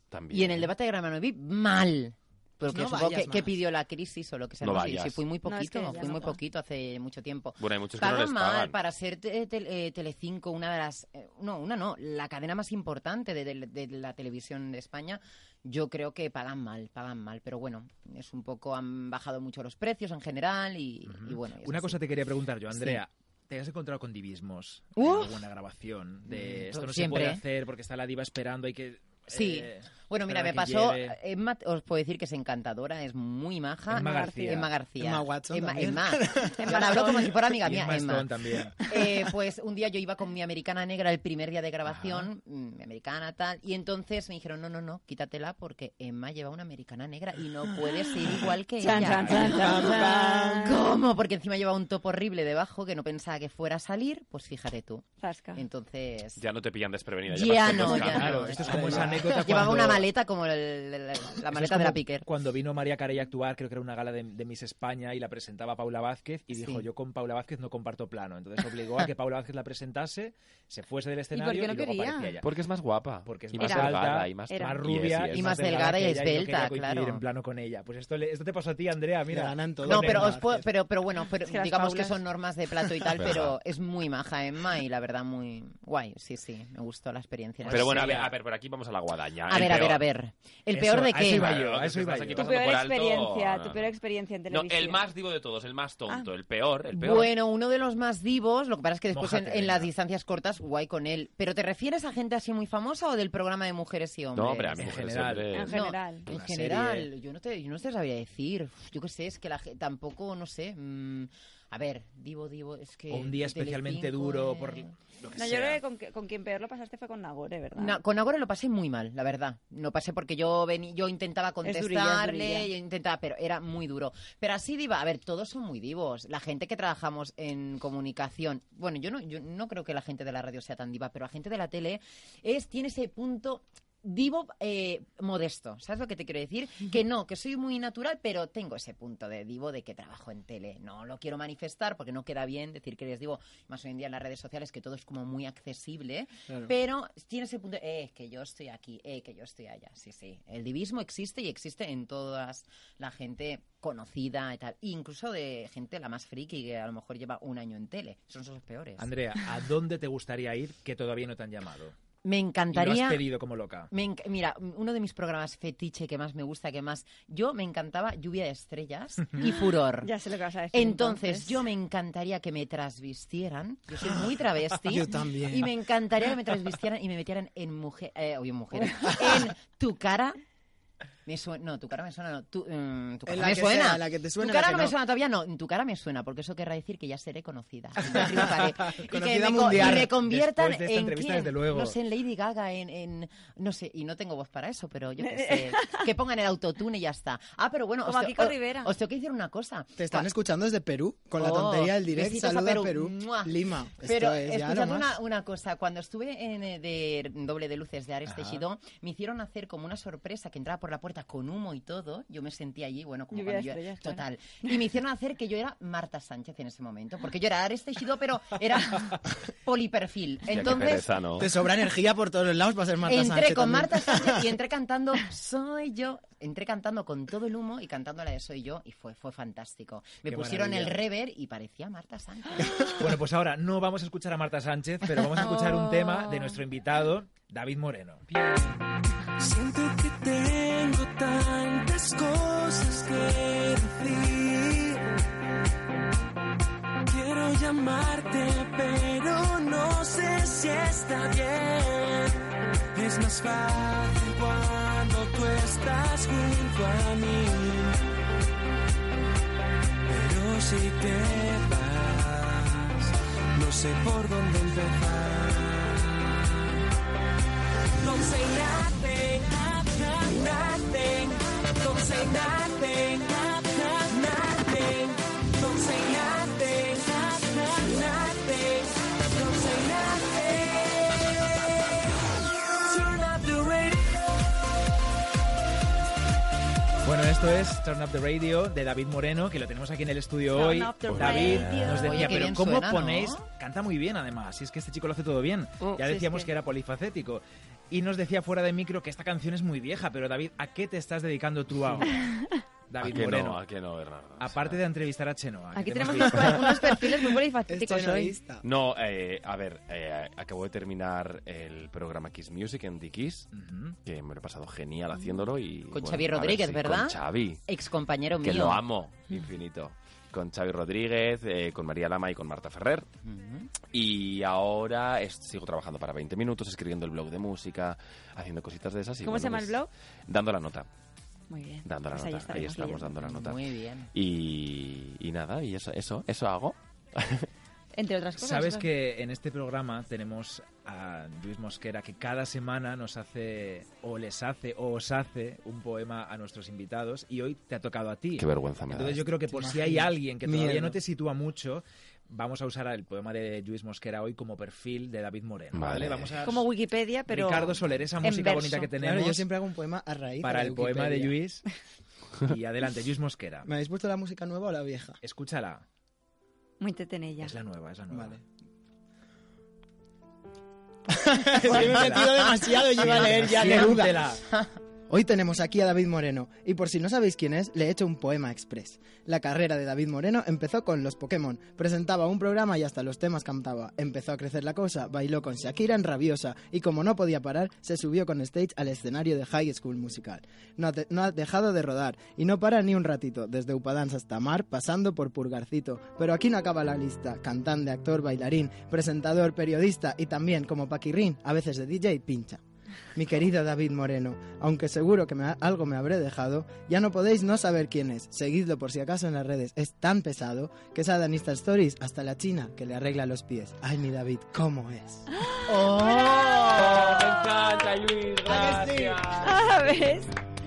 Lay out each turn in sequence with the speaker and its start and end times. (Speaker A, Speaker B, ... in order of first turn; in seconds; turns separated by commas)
Speaker A: 0.1-0.7, Speaker B: 0.3-22.0, Speaker C: 2.7-3.5, Speaker A: 4.6-5.2, Speaker D: 5.5-6.4, Speaker A: 7.6-8.8, Speaker E: 21.1-31.2, Speaker B: 22.7-23.0, Speaker B: 25.0-25.4, Speaker B: 26.3-27.4, Speaker B: 29.3-56.4, Speaker E: 33.9-34.7, Speaker D: 34.0-34.6, Speaker C: 35.0-37.4, Speaker D: 36.6-37.3, Speaker E: 37.5-38.8, Speaker E: 41.9-42.3, Speaker D: 48.8-50.8, Speaker E: 48.9-49.6, Speaker C: 49.4-50.7, Speaker D: 55.2-55.6, Speaker A: 56.4-58.5, Speaker B: 57.3-62.3, Speaker E: 57.7-60.0, Speaker C: 58.5-59.7, Speaker E: 61.5-72.5, Speaker B: 66.5-66.9, Speaker D: 71.3-72.3, Speaker A: 72.4-75.6, Speaker E: 73.2-80.4, Speaker D: 73.6-74.0, Speaker D: 74.5-74.8, Speaker B: 75.3-77.2, Speaker C: 79.3-80.6, Speaker B: 79.8-88.2, Speaker D: 81.4-82.2, Speaker A: 83.2-83.5, Speaker E: 87.6-88.3, Speaker A: 87.7-90.0, Speaker B: 89.5-91.5, Speaker E: 90.7-92.5, Speaker A: 91.3-93.9, Speaker D: 92.3-95.0, Speaker A: 94.5-97.3, Speaker B: 96.9-104.9, Speaker E: 99.1-99.9, Speaker A: 104.3-105.8, Speaker E: 104.8-105.6, Speaker D: 105.5-106.3, Speaker B: 105.6-114.9, Speaker E: 106.3-107.1, Speaker E: 113.1-115.8, Speaker D: 115.3-118.0, Speaker B: 117.7-159.1, Speaker D: 121.6-122.7, Speaker E: 159.0-161.9, Speaker B: 162.2-163.3, Speaker E: 162.7-163.9, Speaker B: 163.9-170.1, Speaker D: 170.0-171.6, Speaker B: 170.7-180.4, Speaker C: 174.8-175.7, Speaker B: 181.3-200.3, Speaker C: 183.3-184.9, Speaker C: 188.0-190.1, Speaker E: 189.6-192.0, Speaker D: 195.2-196.1, Speaker D: 198.1-198.9, Speaker C: 200.0-205.1, Speaker B: 201.4-221.1, Speaker E: 208.3-208.6, Speaker D: 213.3-214.7, Speaker A: 220.5-221.5, Speaker C: 221.4-224.4, Speaker B: 223.1-232.9, Speaker E: 230.3-231.0, Speaker E: 233.0-238.3, Speaker D: 235.6-236.5, Speaker F: 239.4-245.1, Speaker F: 247.1-258.1, Speaker F: 260.1-266.4, Speaker F: 268.0-281.5, Speaker F: 282.8-284.5, Speaker E: 287.0-302.3, Speaker D: 290.5-292.4, Speaker B: 291.3-293.4, Speaker D: 295.9-296.5, Speaker D: 302.2-302.6, Speaker E: 302.9-303.6, Speaker A: 303.0-304.8, Speaker E: 304.4-307.0, Speaker D: 305.8-308.4, Speaker C: 307.7-308.6, Speaker A: 308.6-313.5, Speaker E: 313.5-314.0, Speaker A: 314.1-317.6, Speaker B: 315.9-318.8, Speaker A: 318.4-323.1, Speaker B: 323.2-323.7, Speaker A: 323.9-329.8, Speaker D: 329.2-329.9, Speaker A: 330.3-330.9, Speaker D: 331.5-333.2, Speaker A: 331.9-333.6, Speaker B: 333.2-334.1, Speaker A: 334.1-337.5, Speaker D: 337.9-338.9, Speaker E: 338.4-356.7, Speaker A: 348.4-349.2, Speaker C: 349.5-351.0, Speaker A: 355.7-356.4, Speaker D: 356.4-358.9, Speaker E: 357.3-359.5, Speaker C: 359.0-361.4, Speaker E: 360.4-361.7, Speaker E: 362.4-363.7, Speaker C: 363.6-365.2, Speaker E: 365.2-365.9, Speaker D: 366.8-367.6, Speaker E: 367.4-368.4, Speaker C: 368.1-368.4, Speaker C: 371.1-374.4, Speaker E: 371.6-374.4, Speaker C: 375.1-402.6, Speaker C: 403.1-415.3, Speaker D: 415.4-417.0, Speaker A: 415.7-419.9, Speaker C: 418.5-419.2, Speaker D: 419.4-420.3